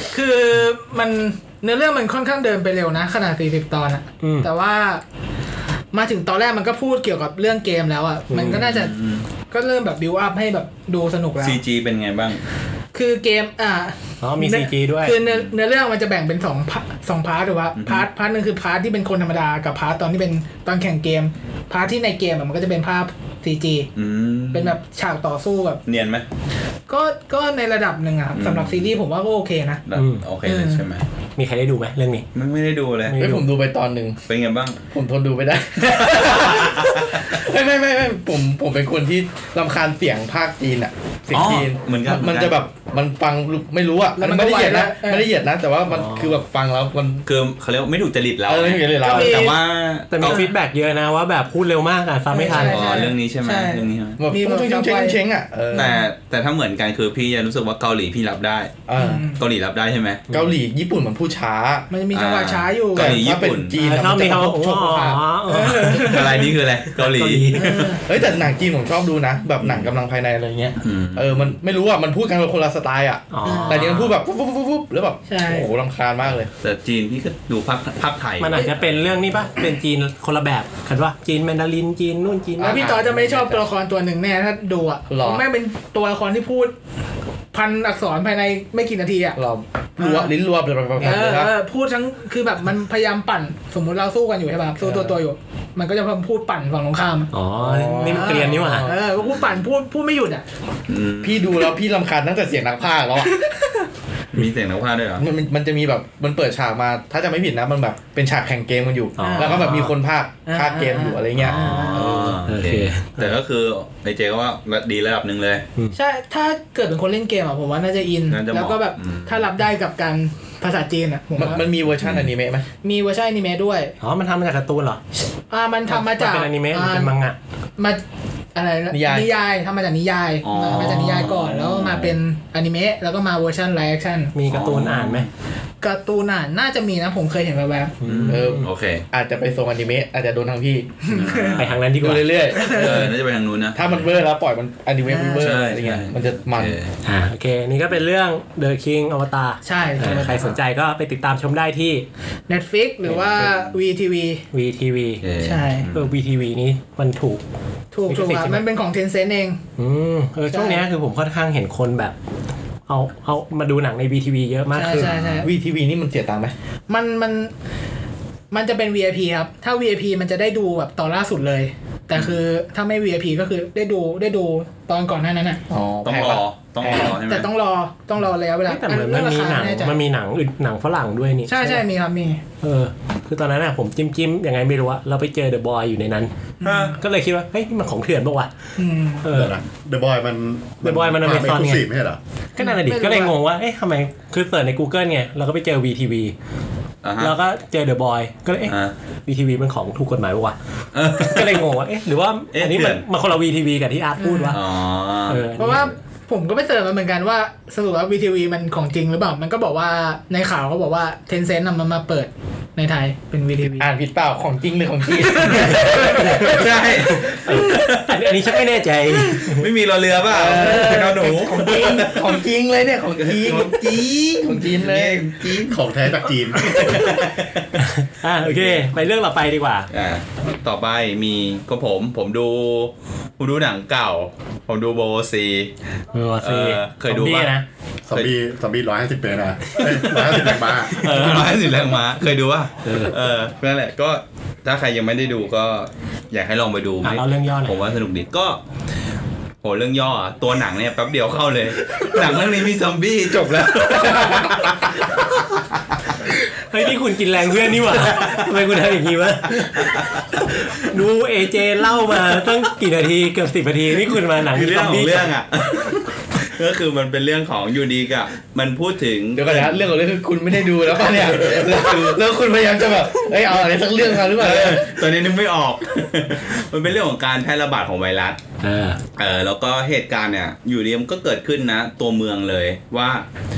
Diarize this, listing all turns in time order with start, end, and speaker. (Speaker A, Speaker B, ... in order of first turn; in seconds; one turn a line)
Speaker A: 0.1-5.0
Speaker B: 4.2-4.5
Speaker A: 5.9-8.9
Speaker B: 8.3-8.6
Speaker C: 8.4-9.3
Speaker A: 9.5-11.6
Speaker C: 11.4-12.4
Speaker A: 12.9-23.9
Speaker B: 14.2-15.2
Speaker C: 15.2-15.5
Speaker C: 17.8-18.1
Speaker C: 24.0-24.8
Speaker A: 24.5-25.8
Speaker C: 25.9-26.2
Speaker A: 26.9-29.8
Speaker C: 28.4-28.9
Speaker C: 29.9-31.0
Speaker B: 29.9-30.2
Speaker A: 30.4-30.8
Speaker B: 31.4-32.3
Speaker C: 32.4-33.2
Speaker B: 33.1-33.5
Speaker D: 33.2-34.2
Speaker C: 34.3-34.8
Speaker D: 34.9-47.2
Speaker C: 35.8-37.4
Speaker C: 41.3-42.6
Speaker A: 44.2-45.3
Speaker B: 45.9-46.4
Speaker C: 47.3-50.4
Speaker D: 48.5-49.5
Speaker A: 49.0-49.6
Speaker B: 50.1-53.1
Speaker A: 52.3-55.2
Speaker C: 52.5-54.2
Speaker D: 54.2-55.9
Speaker A: 55.7-56.0
Speaker C: 55.8-58.8
Speaker D: 58.9-59.2
Speaker A: 59.0-59.4
Speaker C: 59.4-60.2
Speaker D: 60.3-61.9
Speaker A: 61.9-63.2
Speaker C: 62.1-63.8
Speaker D: 63.0-65.2
Speaker B: 63.8-67.9
Speaker A: 65.5-66.5
Speaker C: 66.0-67.9
Speaker A: 67.5-68.1
Speaker D: 68.0-76.5
Speaker C: 69.6-69.9
Speaker C: 70.8-71.6
Speaker B: 73.3-74.2
Speaker A: 73.5-74.1
Speaker A: 75.3-75.7
Speaker C: 76.6-78.6
Speaker B: 78.4-83.6
Speaker D: 82.6-83.0
Speaker A: 82.6-86.7
Speaker D: 85.1-85.5
Speaker A: 87.5-89.4
Speaker D: 89.4-91.5
Speaker A: 90.0-90.3
Speaker B: 91.0-91.3
Speaker A: 91.0-97.3
Speaker B: 97.3-98.9
Speaker D: 97.6-99.0
Speaker A: 98.1-100.4
Speaker C: 99.2-99.7
Speaker C: 100.9-101.6
Speaker D: 101.2-103.3
Speaker A: 103.3-103.9
Speaker C: 104.3-105.2
Speaker D: 105.2-112.4
Speaker B: 109.2-109.9
Speaker A: 109.2-109.8
Speaker A: 110.5-112.2
Speaker C: 111.4-115.7
Speaker B: 112.5-113.3
Speaker A: 116.0-121.6
Speaker C: 118.3-119.5
Speaker D: 121.4-122.7
Speaker A: 122.8-124.0
Speaker B: 124.0-125.0
Speaker A: 125.5-127.1
Speaker B: 125.9-127.4
Speaker A: 128.6-134.3
Speaker D: 128.9-129.3
Speaker C: 130.4-132.2
Speaker B: 134.3-135.3
Speaker C: 134.5-135.3
Speaker A: 135.8-137.9
Speaker B: 138.0-138.7
Speaker C: 138.0-139.1
Speaker D: 138.3-141.0
Speaker A: 141.0-141.6
Speaker C: 141.1-141.8
Speaker B: 141.6-142.3
Speaker D: 142.0-143.2
Speaker C: 142.6-144.0
Speaker A: 142.6-143.0
Speaker D: 143.7-146.8
Speaker A: 145.1-145.5
Speaker C: 145.4-147.0
Speaker B: 147.0-152.1
Speaker A: 149.6-150.5
Speaker C: 150.2-150.5
Speaker A: 152.5-154.4
Speaker C: 153.1-153.7
Speaker B: 154.5-155.2
Speaker C: 155.2-156.1
Speaker A: 155.4-155.9
Speaker B: 155.9-157.4
Speaker A: 157.9-159.6
Speaker B: 158.1-158.6
Speaker B: 159.8-162.2
Speaker A: 160.5-160.8
Speaker B: 162.9-165.1
Speaker A: 164.7-165.5
Speaker C: 165.0-165.5
Speaker D: 165.4-166.5
Speaker A: 166.9-167.5
Speaker A: 168.5-175.6
Speaker D: 175.7-177.1
Speaker C: 176.0-177.5
Speaker A: 176.9-180.0
Speaker B: 178.7-181.8
Speaker A: 181.5-182.4
Speaker B: 182.6-188.5
Speaker A: 186.6-187.0
Speaker C: 186.7-186.9
Speaker A: 188.8-189.2
Speaker B: 189.2-189.6
Speaker E: 189.3-192.2
Speaker B: 190.8-191.9
Speaker B: 192.6-196.3
Speaker A: 192.6-193.3
Speaker C: 197.0-197.3
Speaker B: 197.2-198.7
Speaker C: 198.7-198.9
Speaker B: 199.3-200.6
Speaker C: 200.9-201.7
Speaker B: 201.1-204.6
Speaker C: 202.5-203.0
Speaker A: 204.2-204.6
Speaker C: 204.5-205.9
Speaker B: 205.3-205.9
Speaker A: 205.6-213.9
Speaker D: 213.8-217.2
Speaker A: 215.6-216.2
Speaker B: 216.2-216.5
Speaker C: 216.4-218.2
Speaker B: 217.4-219.7
Speaker C: 219.3-222.4
Speaker D: 220.2-225.7
Speaker C: 223.2-225.8
Speaker E: 225.7-227.0
Speaker C: 226.6-227.8
Speaker B: 227.8-229.9
Speaker C: 228.4-228.8
Speaker C: 229.9-235.7
Speaker B: 236.1-237.7
Speaker C: 236.4-237.5
Speaker E: 238.1-241.0
Speaker C: 239.8-248.6
Speaker B: 240.9-241.4
Speaker B: 242.8-243.1
Speaker B: 247.0-247.8
Speaker C: 249.6-255.6
Speaker D: 254.1-254.4
Speaker B: 256.7-265.3
Speaker C: 258.0-258.5
Speaker C: 259.6-260.5
Speaker C: 264.4-269.9
Speaker D: 269.4-274.9
Speaker C: 271.0-272.2
Speaker C: 274.1-278.4
Speaker B: 278.6-279.0
Speaker C: 279.2-283.3